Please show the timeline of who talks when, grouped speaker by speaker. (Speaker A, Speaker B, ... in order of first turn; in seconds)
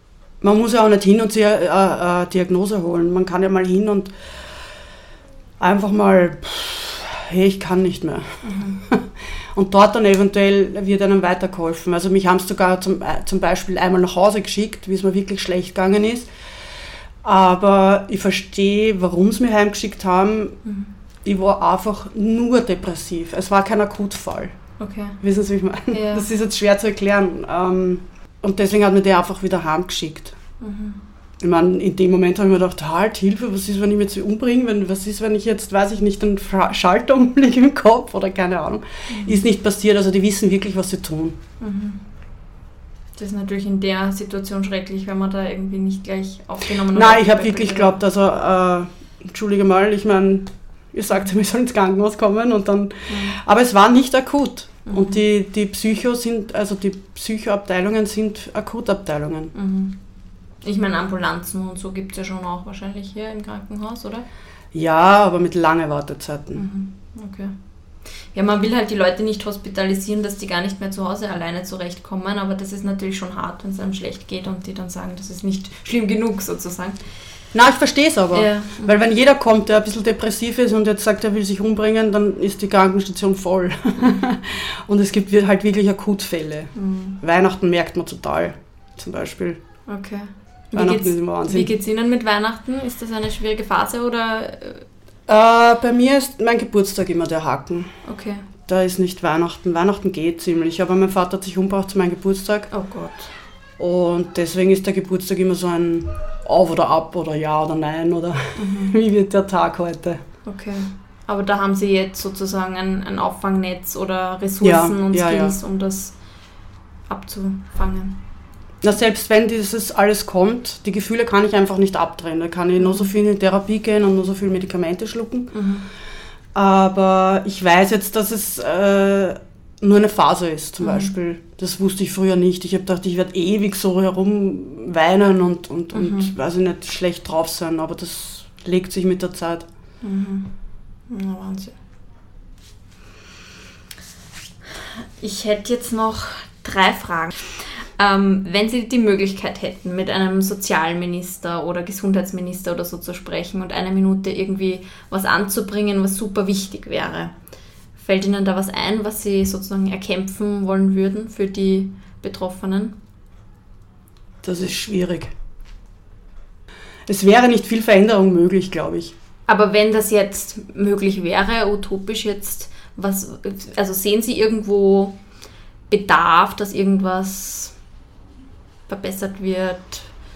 Speaker A: 0.4-4.2, 5.6-16.3, 17.2-20.6, 21.2-24.5, 25.2-30.4, 31.4-41.4, 46.9-59.5, 64.7-66.6, 77.5-89.6, 90.7-91.7, 95.3-98.0, 98.6-102.7, 103.8-110.2, 114.6-115.5, 118.8-125.5, 126.5-139.7, 164.4-165.3, 167.1-169.1
Speaker B: 8.4-8.8, 20.6-20.9, 24.8-25.2, 25.9-26.3, 30.6-31.0, 39.1-39.4, 41.6-42.0, 43.2-48.0, 53.1-53.4, 54.9-55.2, 59.5-60.0, 60.6-64.2, 66.5-67.5, 68.3-77.0, 78.3-79.0, 86.8-87.2, 89.9-94.8, 98.0-98.5, 102.7-103.3, 108.5-109.0, 110.5-116.2, 117.1-118.2, 122.8-123.1, 125.5-125.9, 130.8-131.1, 135.9-136.3, 140.0-140.5, 141.1-141.8, 144.7-157.3, 158.0-163.0, 169.5-175.2, 175.9-177.7, 178.9-180.1